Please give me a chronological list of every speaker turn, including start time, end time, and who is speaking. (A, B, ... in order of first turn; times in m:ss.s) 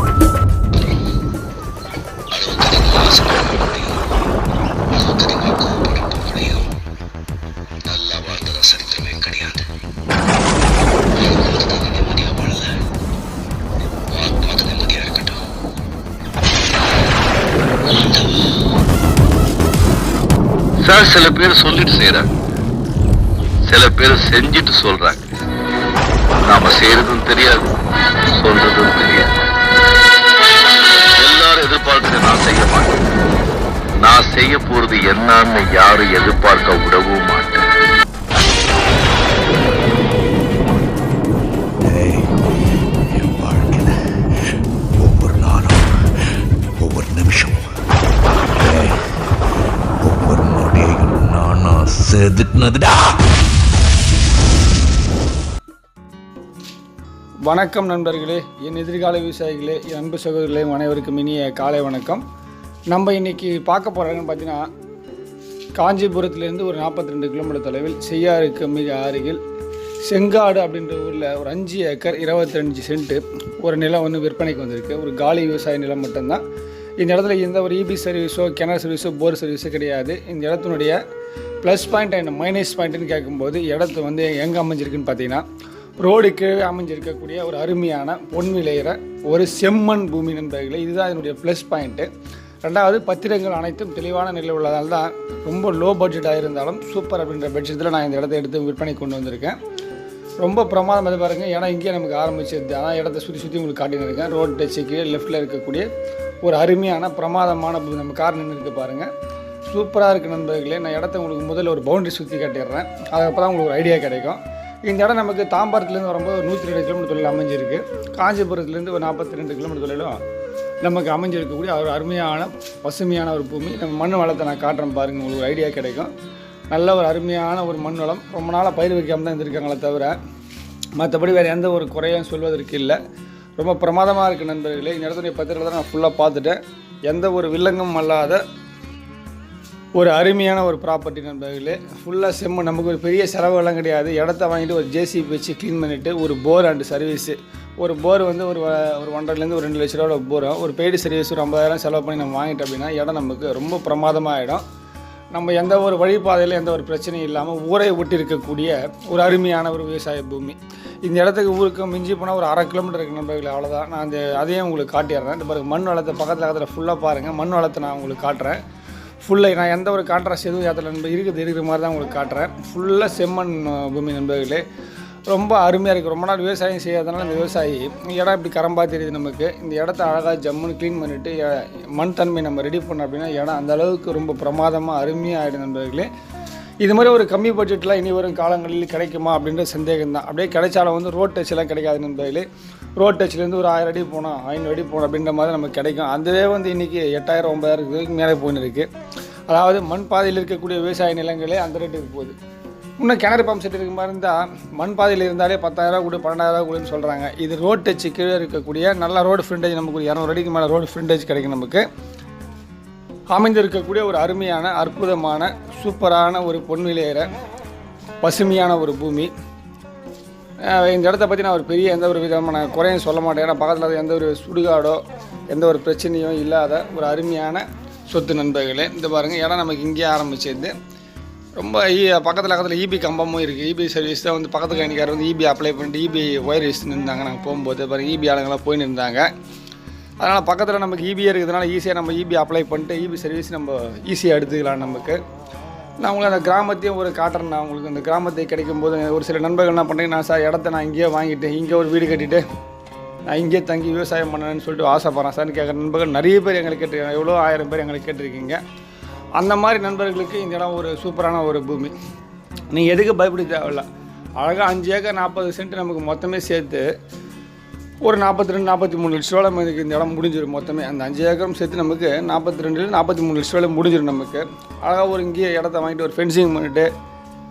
0:02.3-0:03.6 A
0:02.4-0:04.0 B
0:04.9-0:06.4 A
0:05.7-0:06.6 B
0:07.9-0:09.1 A
0:08.5-0:09.6 B
0:11.2-0:12.3 A
0:12.1-0:12.7 B
0:14.1-0:15.4 A
0:14.6-0:15.1 B
0:20.8-0:22.3 A
0:23.6-0:25.2 A
0:26.4-0:27.7 A
0:28.3-0:29.3 A
0:31.2-0:33.1 A
0:34.0-0:37.6 A
0:41.8-0:44.2 B
0:45.0-0:46.0 B
0:46.8-0:47.7 B
0:48.5-0:49.3 B
0:50.0-0:53.2 B
0:57.4-1:02.2 C
1:02.9-1:04.6 C
1:05.8-1:09.4 C
1:10.0-1:16.4 C
1:17.0-1:21.0 C
1:21.6-1:25.4 C
1:26.0-1:32.1 C
1:32.6-1:39.6 C
1:40.4-1:45.8 C
1:46.4-1:49.1 C
1:49.6-2:00.2 C
2:00.8-2:06.1 C
2:06.7-2:10.2 C
2:11.0-2:13.0 C
2:13.6-2:16.6 C
2:17.1-2:18.4 C
2:20.0-2:34.6 C
2:35.3-2:48.6 C
2:49.2-2:54.6 C
2:55.3-3:06.1 C
3:06.8-3:12.4 C
3:13.0-3:18.9 C
3:19.5-3:22.3 C
3:23.0-3:31.8 C
3:33.3-3:37.3 C
3:38.2-3:39.3 C
3:40.7-3:50.7 C
3:51.6-3:59.3 C
4:00.2-4:05.2 C
4:06.0-4:12.4 C
4:13.3-4:18.6 C
4:19.4-4:21.9 C
4:22.7-4:23.8 C
4:24.4-4:26.8 C
4:28.0-4:36.9 C